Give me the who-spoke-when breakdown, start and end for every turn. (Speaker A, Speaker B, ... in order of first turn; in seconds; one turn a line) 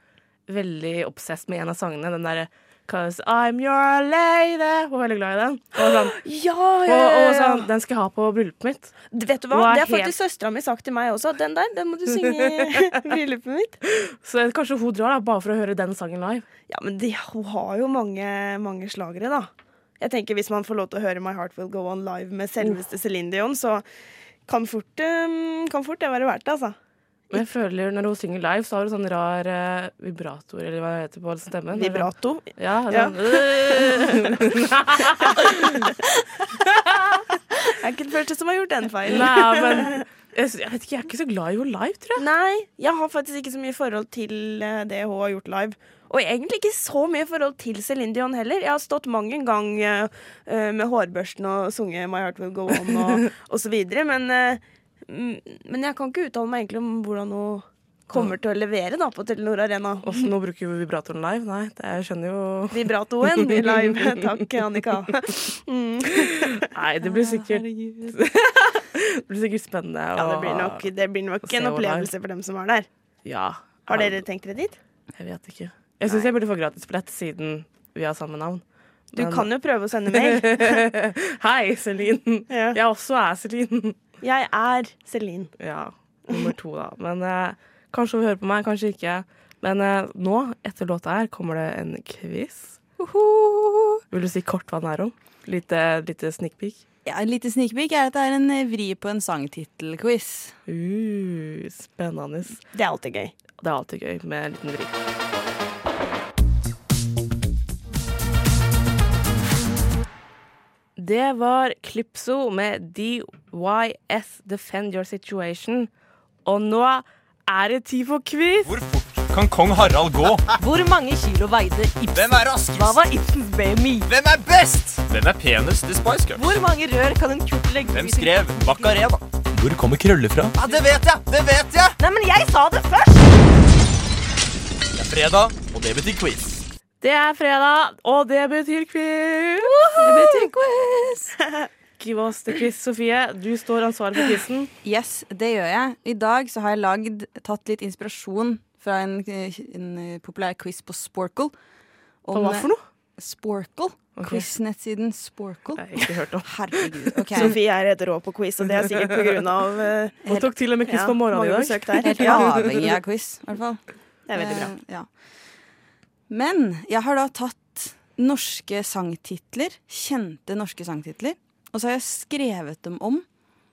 Speaker A: 0.5-6.2
Speaker B: 5.8-7.7
Speaker A: 6.8-8.9
Speaker B: 9.1-13.8
Speaker A: 9.5-10.1
Speaker A: 12.4-12.8
Speaker A: 13.9-16.4
Speaker B: 16.7-19.5
Speaker B: 20.0-23.8
Speaker B: 24.4-26.8
Speaker A: 27.3-35.9
Speaker B: 31.7-34.4
Speaker B: 35.2-36.0
Speaker A: 36.5-37.2
Speaker B: 37.6-40.0
Speaker A: 39.0-42.2
Speaker B: 42.2-60.3
Speaker A: 60.0-64.2
Speaker B: 62.7-66.7
Speaker A: 66.2-70.9
Speaker C: 67.2-67.9
Speaker B: 70.2-72.9
Speaker A: 71.4-72.1
Speaker A: 73.2-74.2
Speaker B: 73.9-74.8
Speaker A: 75.2-78.6
Speaker B: 76.0-76.3
Speaker A: 79.1-79.5
Speaker B: 79.1-80.9
Speaker A: 80.1-84.0
Speaker B: 82.5-82.8
Speaker B: 84.2-85.5
Speaker A: 85.6-92.8
Speaker C: 93.0-94.0
Speaker A: 94.1-96.8
Speaker C: 97.0-100.5
Speaker A: 100.7-102.6
Speaker B: 102.7-103.3
Speaker A: 103.6-104.9
Speaker A: 111.0-115.9
Speaker A: 116.4-118.7
Speaker D: 118.7-120.6
Speaker E: 120.6-124.1
Speaker D: 122.1-123.0
Speaker D: 124.1-126.5
Speaker E: 126.3-129.0
Speaker D: 127.9-132.0
Speaker E: 132.0-133.3
Speaker D: 134.9-136.7
Speaker A: 137.0-140.0
Speaker C: 140.0-141.4
Speaker A: 142.0-144.7
Speaker C: 144.8-151.5
Speaker C: 152.2-157.6
Speaker A: 152.3-152.8
Speaker A: 154.2-154.4
Speaker A: 155.8-157.6
Speaker B: 157.3-160.2
Speaker C: 160.2-160.5
Speaker A: 160.3-162.7
Speaker B: 160.8-162.5
Speaker C: 162.0-163.8
Speaker B: 164.3-164.7
Speaker C: 164.3-165.1
Speaker C: 166.3-173.2